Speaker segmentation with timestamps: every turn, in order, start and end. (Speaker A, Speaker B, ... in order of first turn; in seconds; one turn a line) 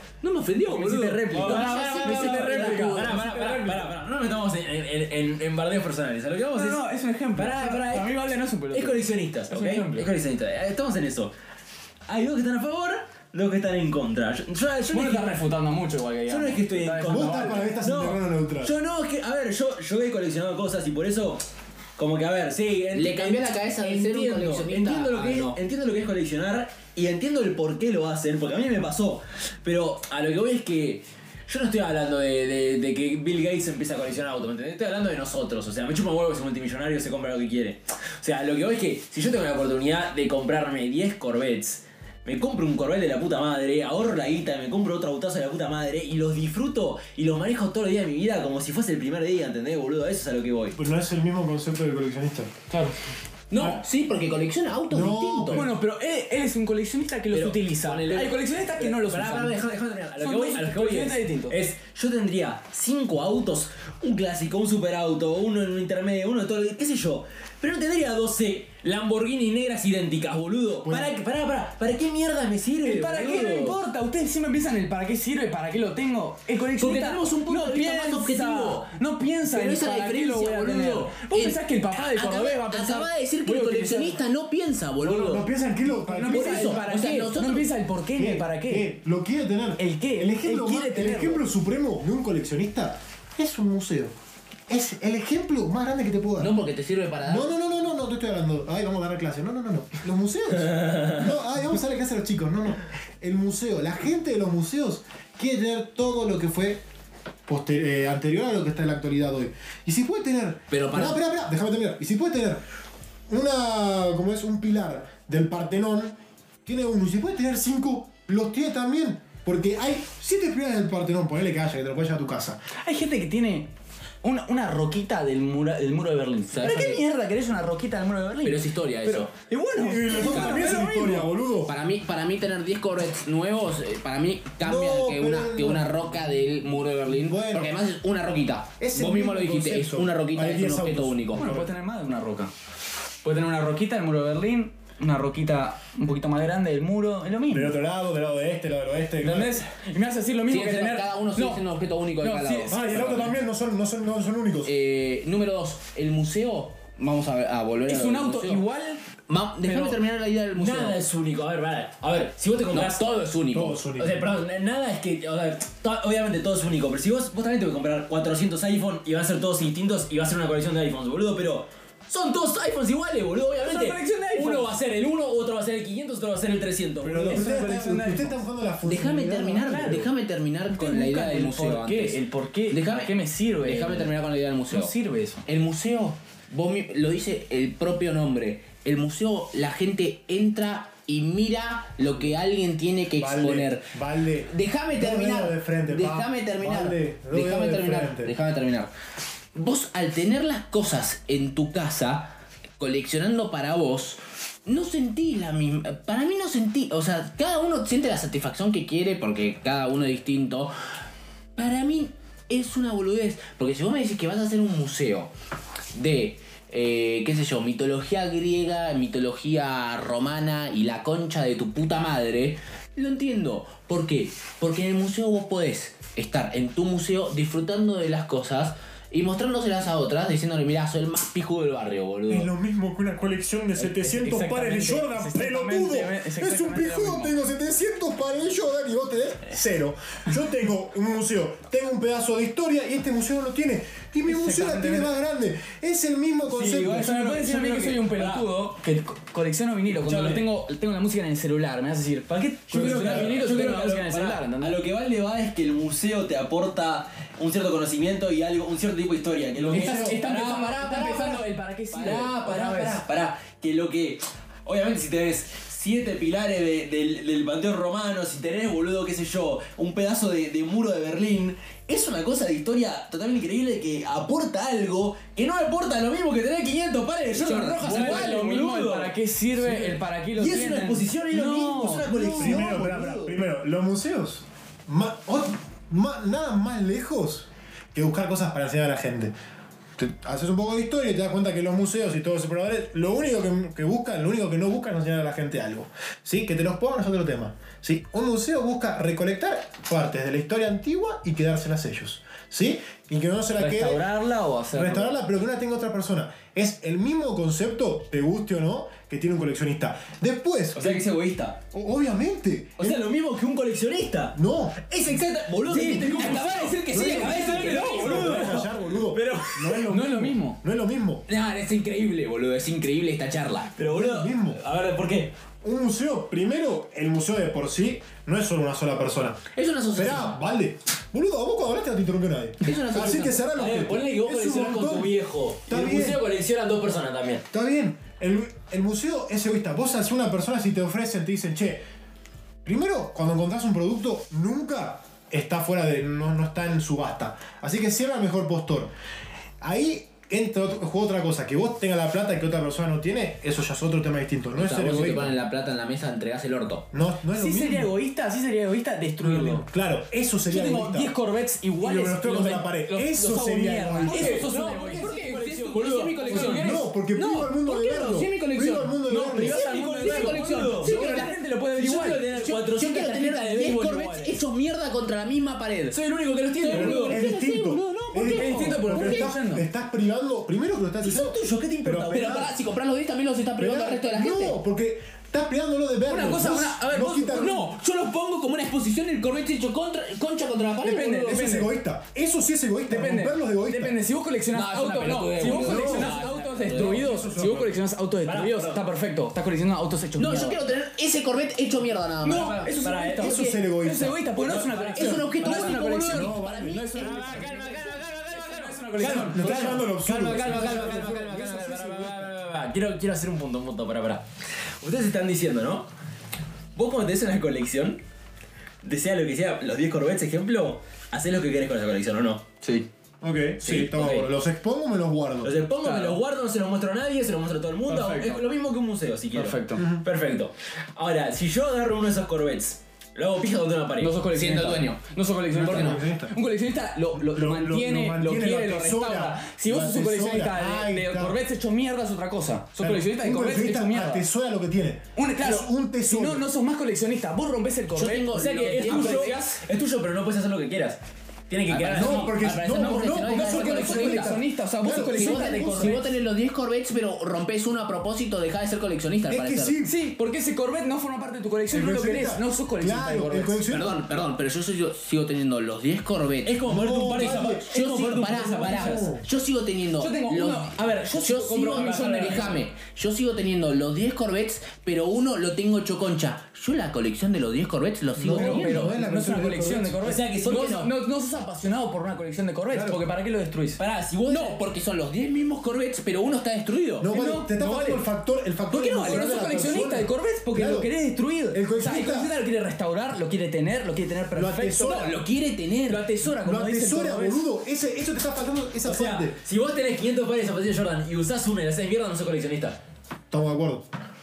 Speaker A: 0.2-3.2
Speaker B: 0.6-3.9
Speaker C: 1.3-6.8
Speaker B: 6.5-10.1
Speaker C: 7.3-11.3
Speaker C: 12.1-15.4
Speaker B: 14.9-17.7
Speaker C: 16.3-21.4
Speaker D: 17.1-18.7
Speaker C: 22.0-50.8
Speaker A: 22.9-25.6
Speaker D: 50.8-52.5
Speaker B: 52.7-53.0
Speaker A: 53.5-55.7
Speaker D: 53.5-53.8
Speaker D: 54.9-55.7
Speaker B: 55.5-59.6
Speaker C: 57.3-73.8
Speaker B: 60.2-61.6
Speaker D: 70.8-71.1
Speaker B: 72.8-84.2
Speaker A: 76.8-78.9
Speaker A: 79.5-85.5
Speaker D: 85.0-86.8
Speaker B: 86.0-88.9
Speaker A: 86.3-87.7
Speaker D: 88.2-94.1
Speaker B: 89.8-91.4
Speaker D: 94.7-96.5
Speaker A: 96.4-97.5
Speaker D: 97.3-106.8
Speaker C: 100.9-101.2
Speaker D: 107.5-112.6
Speaker A: 110.7-111.2
Speaker D: 113.3-122.6
Speaker B: 122.8-123.7
Speaker B: 124.2-131.3
Speaker A: 126.5-127.0
Speaker A: 128.4-129.3
Speaker D: 129.8-131.7
Speaker A: 130.2-130.7
Speaker A: 131.7-141.5
Speaker D: 134.6-136.0
Speaker D: 137.1-137.8
Speaker D: 138.8-141.7
Speaker B: 141.4-142.5
Speaker B: 143.2-147.8
Speaker D: 147.5-149.6
Speaker B: 149.2-153.2
Speaker A: 150.5-153.3
Speaker D: 152.7-154.7
Speaker A: 154.7-158.7
Speaker B: 157.9-159.0
Speaker A: 159.3-161.0
Speaker B: 159.6-160.0
Speaker C: 160.6-163.1
Speaker A: 162.7-163.8
Speaker D: 163.5-164.2
Speaker C: 164.0-177.5
Speaker B: 173.6-174.7
Speaker D: 177.0-179.9
Speaker B: 177.2-178.4
Speaker A: 178.8-184.9
Speaker B: 179.6-180.1
Speaker B: 180.7-185.4
Speaker A: 185.4-193.9
Speaker D: 193.2-198.3
Speaker A: 194.5-198.9
Speaker A: 199.6-210.7
Speaker A: 211.6-215.3
Speaker A: 215.9-232.5
Speaker D: 232.3-247.3
Speaker B: 233.8-237.3
Speaker B: 244.3-245.2
Speaker C: 246.5-248.5
Speaker B: 246.7-254.8
Speaker C: 249.9-250.4
Speaker D: 252.7-253.4
Speaker C: 252.7-283.4
Speaker D: 259.6-260.2
Speaker B: 259.6-263.0
Speaker A: 277.3-278.4
Speaker B: 277.8-282.7
Speaker D: 282.4-289.3
Speaker D: 290.0-304.0
Speaker B: 303.6-305.2
Speaker D: 304.7-311.1
Speaker C: 310.7-311.6
Speaker D: 311.7-313.0
Speaker C: 312.8-314.4
Speaker D: 314.3-315.2
Speaker C: 314.9-319.9
Speaker A: 315.7-318.1
Speaker B: 315.8-316.4
Speaker D: 316.9-321.2
Speaker B: 317.1-318.6
Speaker B: 319.9-320.6
Speaker A: 321.3-323.7
Speaker C: 323.8-325.4
Speaker D: 323.8-324.6
Speaker D: 325.6-329.4
Speaker A: 329.6-330.4
Speaker D: 329.9-335.1
Speaker A: 332.6-333.4
Speaker C: 333.6-337.4
Speaker D: 335.7-336.3
Speaker D: 337.5-341.9
Speaker D: 342.6-348.9
Speaker D: 349.6-355.4
Speaker A: 354.5-356.9
Speaker D: 356.9-357.9
Speaker B: 357.3-359.7
Speaker D: 359.2-361.1
Speaker B: 360.5-366.9
Speaker D: 361.8-364.4
Speaker A: 364.1-368.9
Speaker C: 364.1-366.6
Speaker D: 366.6-369.6
Speaker B: 369.1-372.3
Speaker C: 369.4-371.0
Speaker A: 369.9-371.4
Speaker D: 370.9-371.2
Speaker C: 371.8-374.4
Speaker A: 372.3-376.0
Speaker C: 375.9-377.2
Speaker A: 376.6-379.3
Speaker D: 376.7-382.5
Speaker B: 378.2-379.6
Speaker C: 381.0-382.5
Speaker A: 382.1-384.6
Speaker D: 383.6-387.6
Speaker B: 386.1-387.7
Speaker A: 387.3-391.4
Speaker B: 390.8-391.7
Speaker D: 391.3-394.0
Speaker B: 392.9-400.6
Speaker A: 394.5-397.0
Speaker D: 395.5-396.2
Speaker D: 396.7-397.8
Speaker C: 398.2-398.8
Speaker A: 400.2-402.6
Speaker B: 402.2-411.1
Speaker C: 402.3-403.5
Speaker D: 403.2-404.2
Speaker C: 404.4-406.1
Speaker A: 404.9-407.4
Speaker D: 406.1-406.9
Speaker C: 407.0-414.2
Speaker D: 409.0-412.3
Speaker C: 414.8-415.9
Speaker C: 416.8-418.0
Speaker C: 418.8-422.4
Speaker D: 423.2-425.6
Speaker C: 423.6-424.3
Speaker C: 425.4-434.1
Speaker B: 425.8-426.2
Speaker B: 427.9-428.4
Speaker B: 429.3-429.9
Speaker D: 429.8-430.0
Speaker B: 434.0-444.2
Speaker A: 434.3-435.0
Speaker D: 435.5-436.3
Speaker A: 435.6-436.0
Speaker D: 437.2-441.4
Speaker D: 442.8-446.5
Speaker B: 445.2-449.6
Speaker A: 447.9-449.4
Speaker C: 448.3-452.9
Speaker A: 451.7-454.4
Speaker D: 451.9-456.0
Speaker B: 453.3-456.1
Speaker A: 454.9-459.8
Speaker D: 459.3-460.0
Speaker B: 459.9-463.6
Speaker D: 461.7-464.0
Speaker A: 463.7-466.6
Speaker C: 466.4-469.1
Speaker D: 466.7-467.8
Speaker A: 467.1-478.9
Speaker D: 468.3-469.3
Speaker B: 470.0-472.6
Speaker C: 471.7-472.6
Speaker D: 478.2-480.1
Speaker B: 478.2-483.8
Speaker C: 480.0-480.9
Speaker A: 480.5-480.9
Speaker D: 482.7-483.0
Speaker C: 483.8-484.6
Speaker A: 484.3-487.1
Speaker D: 487.0-490.9
Speaker B: 487.1-488.1
Speaker B: 488.7-495.1
Speaker D: 491.5-492.3
Speaker D: 494.3-495.2
Speaker A: 494.8-496.0
Speaker B: 495.9-497.4
Speaker D: 496.2-499.4
Speaker C: 498.8-502.8
Speaker D: 503.3-503.9